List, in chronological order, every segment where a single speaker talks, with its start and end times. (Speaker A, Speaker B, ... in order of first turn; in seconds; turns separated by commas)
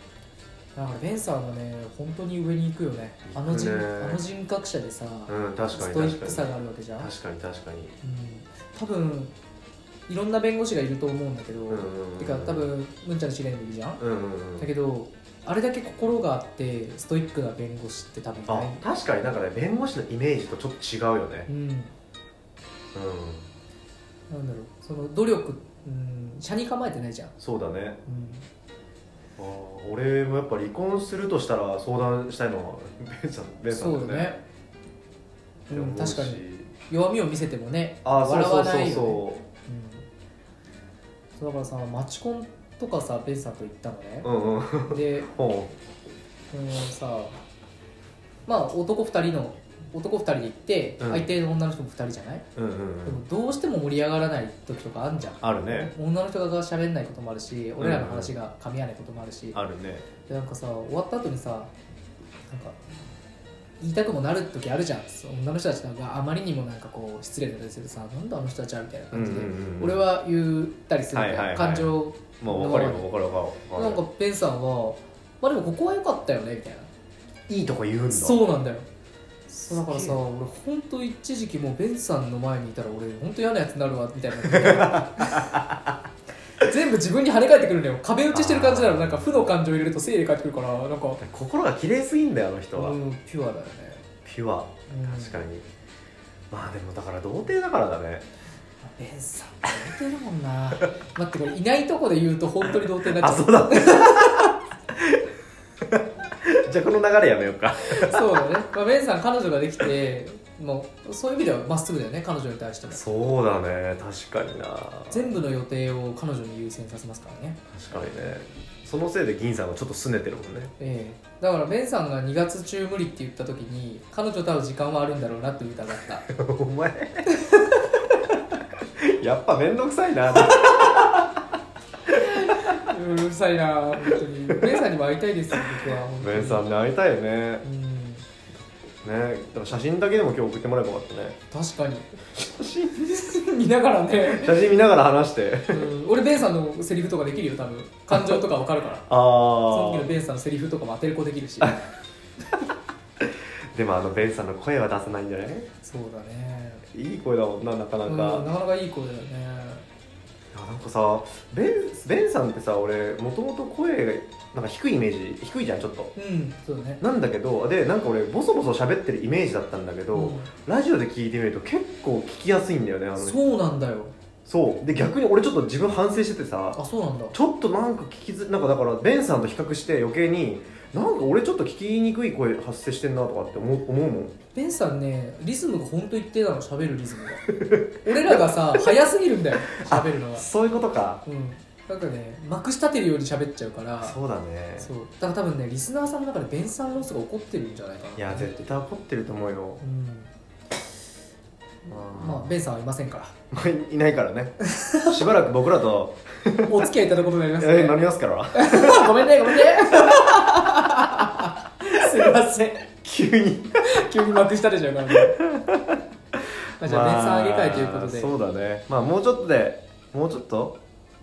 Speaker A: 0.8-7.1, Speaker B: 3.3-4.2, Speaker B: 5.3-8.0, Speaker A: 8.0-9.3, Speaker A: 10.1-14.0, Speaker B: 11.7-12.7, Speaker B: 14.0-14.7, Speaker A: 14.6-18.8, Speaker B: 18.5-21.5, Speaker A: 21.5-21.9, Speaker B: 22.9-23.5, Speaker A: 24.3-27.4, Speaker B: 27.4-28.0, Speaker A: 28.1-28.4, Speaker B: 29.4-34.4, Speaker A: 33.7-34.4, Speaker B: 35.7-36.7, Speaker A: 35.7-40.1, Speaker B: 38.0-39.4, Speaker A: 41.4-44.3, Speaker B: 44.2-45.8, Speaker A: 44.9-45.3, Speaker A: 46.5-47.4, Speaker A: 48.5-52.5, Speaker B: 51.0-51.3, Speaker B: 52.6-53.2, Speaker A: 53.0-59.6, Speaker B: 55.4-55.9, Speaker B: 57.8-58.3, Speaker B: 59.5-60.0, Speaker A: 60.3-61.7, Speaker A: 62.5-62.8, Speaker A: 63.8-73.1, Speaker B: 69.1-70.1, Speaker B: 71.1-74.0, Speaker A: 73.8-76.9, Speaker B: 77.5-78.4, Speaker A: 78.1-78.9, Speaker A: 79.5-85.6, Speaker B: 79.7-80.2, Speaker B: 84.4-85.8, Speaker A: 86.6-91.2, Speaker B: 88.3-89.5, Speaker B: 91.2-93.0, Speaker A: 92.8-94.0, Speaker B: 94.2-95.7, Speaker A: 94.9-95.5, Speaker B: 96.5-98.3, Speaker A: 98.8-104.6, Speaker B: 102.8-105.2, Speaker B: 105.9-108.5, Speaker A: 107.8-113.0, Speaker B: 112.9-115.3, Speaker A: 115.1-117.6, Speaker B: 117.7-120.7, Speaker A: 120.8-126.3, Speaker B: 126.3-127.3, Speaker A: 127.3-127.7, Speaker B: 129.0-131.4, Speaker A: 132.1-136.7, Speaker B: 136.2-137.7, Speaker A: 137.6-138.3, Speaker B: 139.0-141.4, Speaker A: 141.5-142.1, Speaker B: 142.3-143.0, Speaker A: 142.9-144.6, Speaker B: 144.2-145.9, Speaker A: 145.7-149.1, Speaker B: 148.1-148.4, Speaker B: 149.1-150.1, Speaker A: 149.6-151.8, Speaker B: 153.2-155.7, Speaker A: 155.8-156.8, Speaker B: 156.9-158.5, Speaker A: 158.0-159.9, Speaker B: 160.5-166.1, Speaker A: 166.2-167.0, Speaker B: 167.0-173.4, Speaker A: 170.1-170.5, Speaker A: 173.2-174.1, Speaker B: 174.5-176.8, Speaker A: 176.8-177.4, Speaker B: 177.3-184.4, Speaker A: 184.5-187.5, Speaker B: 187.6-188.8, Speaker A: 188.0-190.5, Speaker B: 189.7-191.2, Speaker A: 191.2-194.2, Speaker B: 194.0-194.9, Speaker A: 194.8-198.7, Speaker B: 198.2-199.8, Speaker A: 199.8-200.3, Speaker A: 201.9-203.3, Speaker B: 201.9-202.6, Speaker B: 203.5-206.9, Speaker A: 204.6-205.2, Speaker A: 206.6-212.9, Speaker B: 207.6-210.7, Speaker B: 213.0-213.9, Speaker A: 213.8-215.4, Speaker B: 215.3-216.0, Speaker A: 216.8-218.4, Speaker B: 216.8-220.8